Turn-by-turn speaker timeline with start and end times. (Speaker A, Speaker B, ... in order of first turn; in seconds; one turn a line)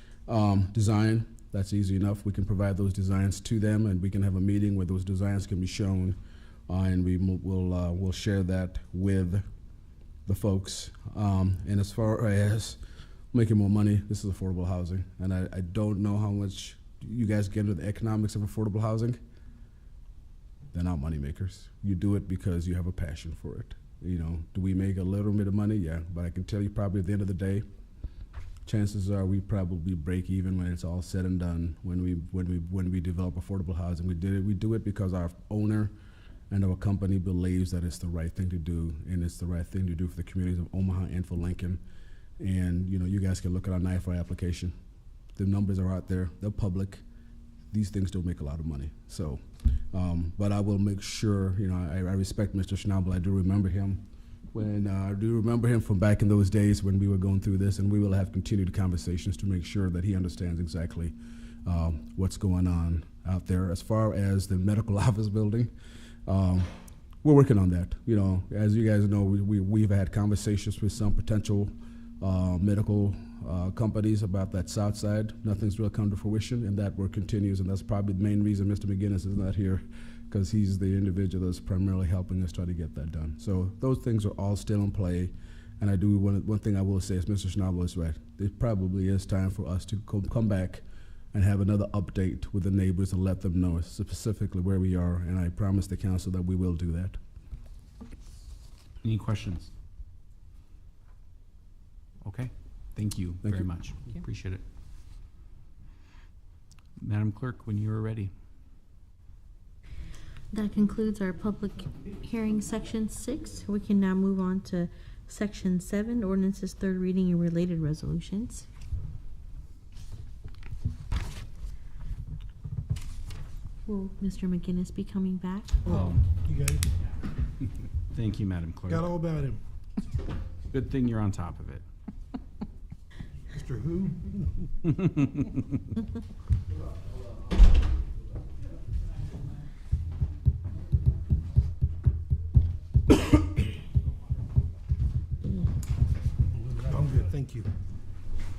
Speaker A: 0.3-6.2
Speaker A: 6.7-9.4
Speaker A: 10.2-12.8
Speaker A: 13.3-19.2
Speaker A: 20.7-27.6
Speaker A: 28.6-35.9
Speaker A: 36.5-41.8
Speaker A: 42.4-44.7
Speaker A: 45.4-47.0
Speaker A: 47.7-61.1
Speaker A: 61.6-65.7
Speaker A: 66.3-97.2
Speaker B: 99.0-99.7
Speaker B: 102.2-104.6
Speaker B: 107.0-108.3
Speaker C: 110.5-118.7
Speaker C: 123.8-126.1
Speaker B: 125.9-126.2
Speaker D: 125.9-126.8
Speaker B: 128.1-129.1
Speaker D: 128.9-129.6
Speaker B: 130.7-131.8
Speaker D: 133.5-134.4
Speaker B: 134.9-135.6
Speaker D: 146.7-147.7